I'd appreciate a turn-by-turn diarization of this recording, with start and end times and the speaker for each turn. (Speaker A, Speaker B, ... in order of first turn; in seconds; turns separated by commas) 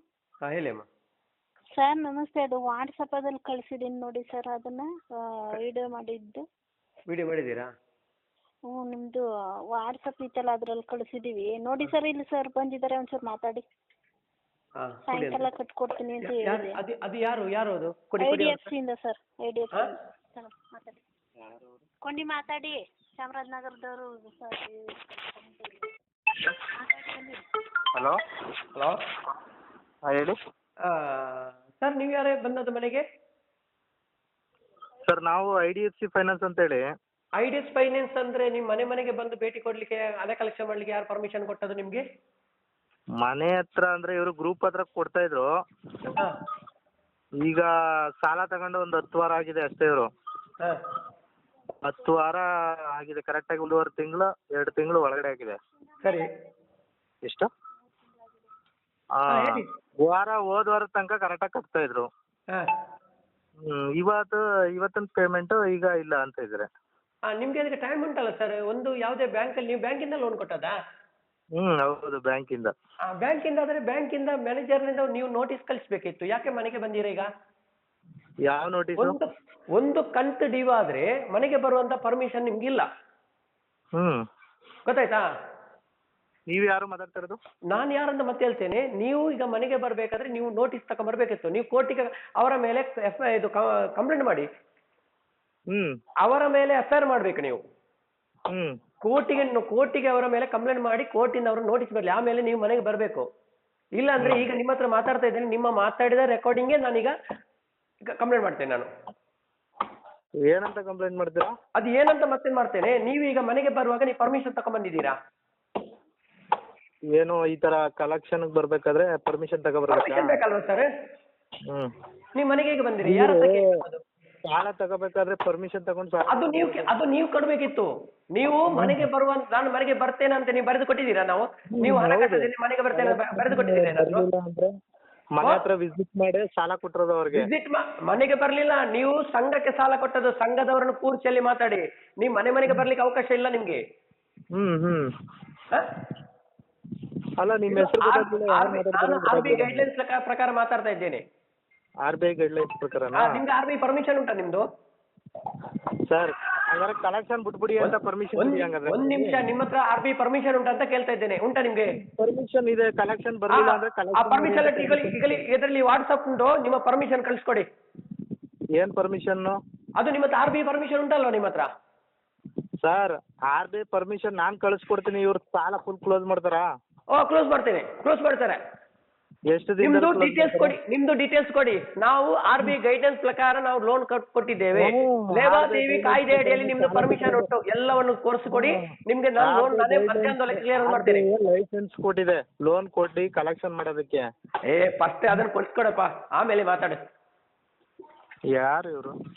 Speaker A: 0.4-0.8, Speaker B: 1.7-4.8, Speaker B: 5.4-6.4, Speaker A: 7.1-7.7, Speaker B: 8.7-9.2, Speaker B: 9.8-13.6, Speaker A: 14.8-15.5, Speaker B: 15.1-16.8, Speaker A: 16.2-18.7, Speaker B: 18.2-21.0, Speaker B: 22.0-25.7, Speaker B: 26.8-27.4, Speaker A: 28.7-29.0, Speaker C: 30.1-30.4, Speaker A: 30.9-33.0, Speaker C: 35.0-36.8, Speaker A: 37.4-42.0, Speaker C: 43.2-45.5, Speaker C: 47.4-47.7, Speaker C: 48.2-50.1, Speaker C: 51.8-55.6, Speaker A: 56.0-56.3, Speaker C: 59.2-62.1, Speaker A: 59.3-59.6, Speaker C: 63.6-66.7, Speaker A: 67.3-70.7, Speaker C: 71.6-72.7, Speaker A: 73.1-77.3, Speaker C: 78.5-79.2, Speaker A: 79.0-82.9, Speaker C: 84.0-84.2, Speaker A: 84.8-85.2, Speaker C: 86.5-87.4, Speaker A: 87.7-94.5, Speaker A: 96.2-97.6, Speaker A: 99.0-103.2, Speaker A: 104.0-107.1, Speaker C: 104.2-104.5, Speaker A: 108.0-108.9, Speaker C: 110.5-111.5, Speaker A: 111.8-115.1, Speaker C: 117.1-120.3, Speaker A: 119.9-120.9, Speaker A: 122.3-124.0, Speaker C: 123.0-123.6, Speaker C: 124.5-126.9, Speaker A: 126.3-134.2, Speaker C: 128.7-129.1, Speaker C: 131.7-134.7, Speaker C: 135.3-137.4, Speaker A: 137.3-143.8, Speaker C: 144.5-145.1, Speaker C: 147.4-149.9, Speaker A: 147.7-151.2, Speaker C: 152.0-153.4, Speaker A: 153.2-154.6, Speaker C: 156.1-159.5, Speaker A: 157.8-161.9, Speaker C: 161.9-165.4, Speaker A: 163.5-167.7, Speaker C: 168.8-169.6, Speaker A: 170.0-171.7, Speaker C: 172.8-176.6, Speaker A: 177.1-178.6, Speaker C: 179.5-180.8, Speaker A: 179.8-191.2, Speaker C: 184.7-187.5, Speaker C: 188.5-188.9, Speaker C: 189.4-194.2, Speaker A: 194.7-197.0, Speaker C: 198.5-199.1